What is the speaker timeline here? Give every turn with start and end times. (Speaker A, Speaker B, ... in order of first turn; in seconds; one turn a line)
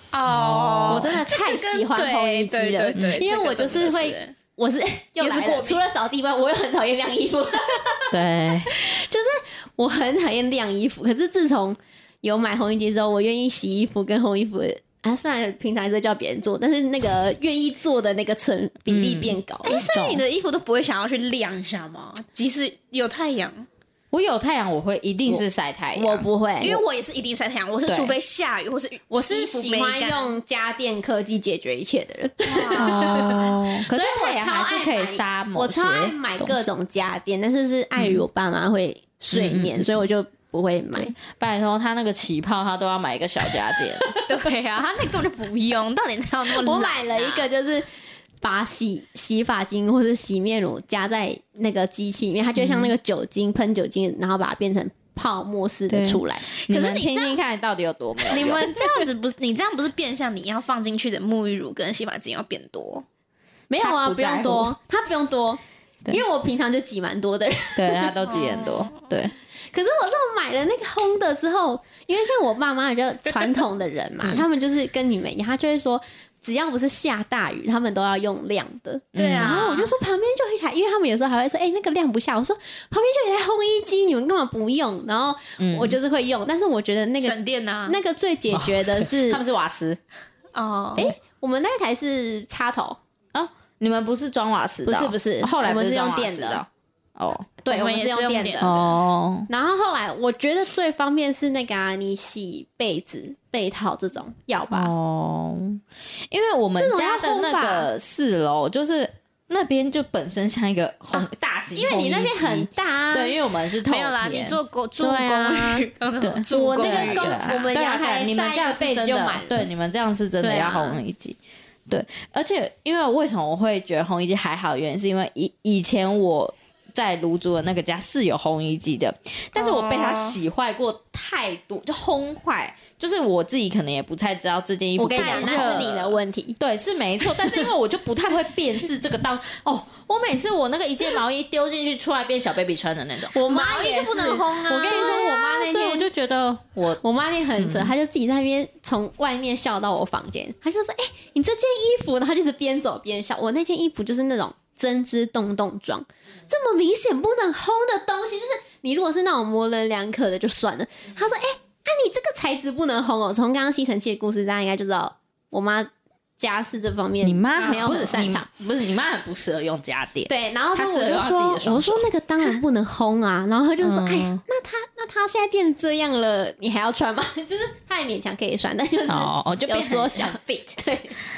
Speaker A: 0.1-4.3
Speaker B: 0.3-1.2
Speaker C: 0.9-19.9
Speaker B: 3.0-3.2
Speaker A: 5.2-5.8
Speaker B: 8.1-8.7
Speaker B: 18.9-19.4
Speaker A: 19.6-23.7
Speaker B: 19.9-20.2
Speaker B: 24.1-26.3
Speaker C: 25.9-26.8
Speaker A: 26.6-30.4
Speaker B: 27.9-28.1
Speaker C: 29.1-41.1
Speaker A: 32.5-33.9
Speaker B: 32.7-36.6
Speaker B: 38.0-38.2
Speaker B: 39.3-40.0
Speaker B: 41.0-44.1
Speaker A: 44.2-47.5
Speaker C: 46.5-47.9
Speaker C: 48.4-56.5
Speaker B: 52.6-52.9
Speaker B: 55.9-58.9
Speaker A: 56.7-57.3
Speaker A: 58.3-63.0
Speaker C: 63.7-68.7
Speaker B: 63.8-64.8
Speaker B: 67.8-69.3
Speaker C: 69.7-89.4
Speaker B: 79.1-79.9
Speaker A: 79.2-79.8
Speaker B: 85.6-86.0
Speaker A: 87.2-88.0
Speaker B: 88.5-90.0
Speaker A: 90.5-91.0
Speaker C: 91.0-93.0
Speaker B: 93.3-97.5
Speaker C: 94.9-96.7
Speaker C: 97.6-98.9
Speaker A: 97.7-98.8
Speaker B: 98.6-99.5
Speaker C: 99.5-104.9
Speaker B: 104.7-114.6
Speaker C: 106.8-107.9
Speaker C: 111.1-113.4
Speaker A: 113.8-117.6
Speaker C: 115.0-115.9
Speaker B: 116.2-121.4
Speaker C: 116.5-119.7
Speaker C: 120.4-121.0
Speaker B: 121.9-136.1
Speaker A: 129.6-130.4
Speaker C: 135.0-136.6
Speaker A: 135.1-136.0
Speaker B: 136.6-143.4
Speaker C: 137.3-137.7
Speaker C: 143.3-146.1
Speaker A: 143.4-145.2
Speaker B: 144.7-147.0
Speaker C: 147.0-168.5
Speaker B: 147.6-147.9
Speaker B: 167.2-172.5
Speaker C: 170.3-181.2
Speaker B: 173.8-174.4
Speaker B: 179.1-180.5